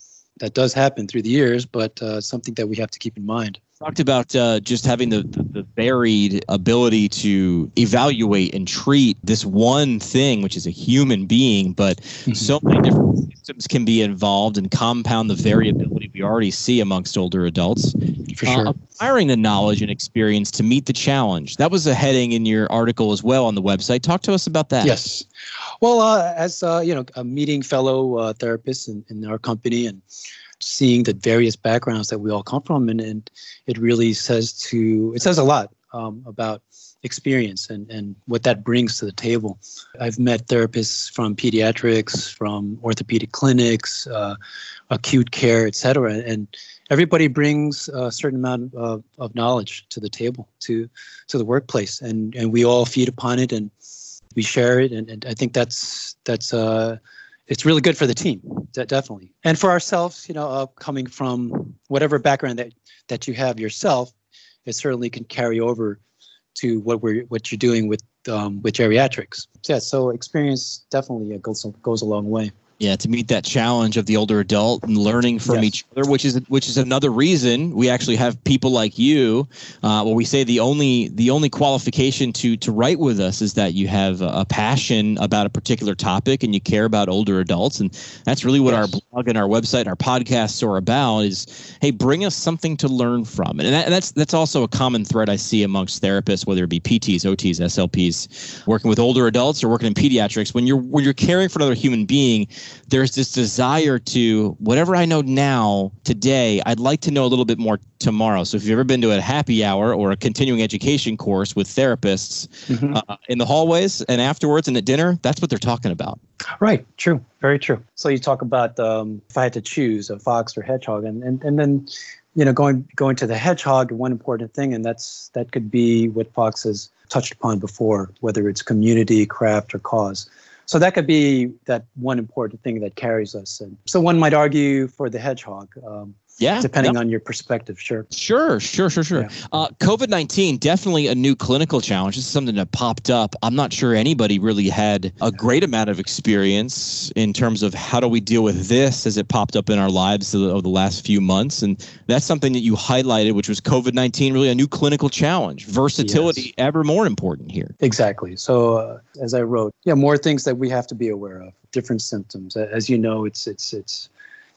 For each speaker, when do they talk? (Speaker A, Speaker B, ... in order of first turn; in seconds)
Speaker A: 0.4-3.6, 12.3-12.6, 18.3-18.7, 24.8-25.2, 25.8-30.0, 30.6-44.4, 44.9-53.7, 54.3-64.1, 64.6-66.0, 66.5-72.5, 75.5-75.7, 88.6-88.9, 112.7-113.0, 116.6-138.1, 156.0-156.5, 157.8-164.1
Speaker B: 3.8-17.9, 18.4-25.0, 72.8-116.2, 136.4-136.9, 138.1-157.7